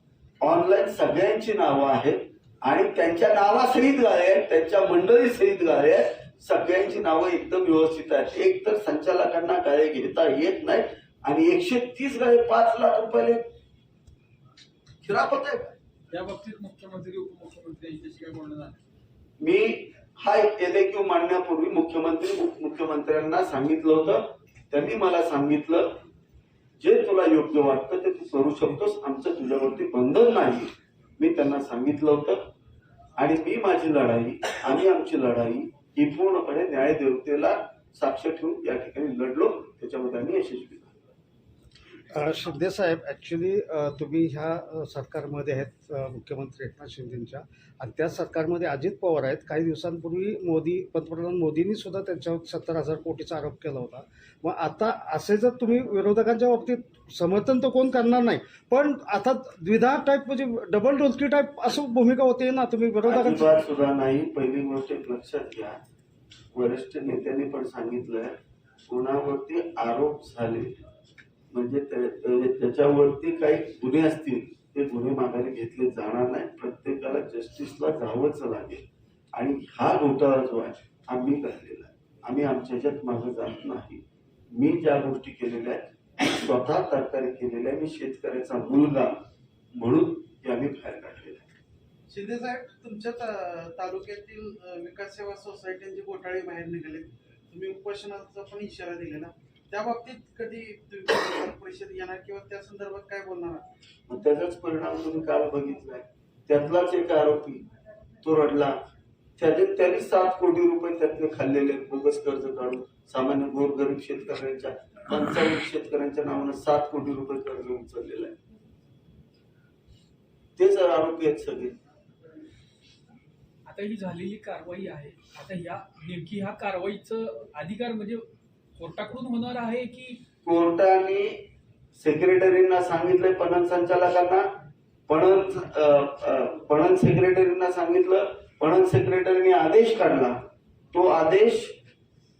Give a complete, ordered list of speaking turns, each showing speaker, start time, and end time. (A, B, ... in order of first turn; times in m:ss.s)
0:00.4-0:13.4 A
0:15.0-0:15.7 A
0:16.1-0:18.8 B
0:19.4-0:25.9 A
0:26.8-0:32.4 A
0:33.2-0:41.0 A
0:42.1-1:03.5 C
1:03.0-1:05.8 A
1:06.5-1:08.3 A
1:08.9-1:10.7 A
1:11.5-1:18.8 A
1:19.3-1:24.0 A
1:24.6-1:29.2 A
1:29.8-1:31.5 A
1:32.1-1:43.6 D
1:44.1-1:47.6 A
1:48.2-1:48.7 A
1:49.4-1:58.4 A
2:00.6-2:01.7 A
2:03.6-2:10.2 B
2:10.4-2:11.4 A
2:12.0-2:14.4 A
2:15.1-2:20.4 A
2:20.9-2:21.7 A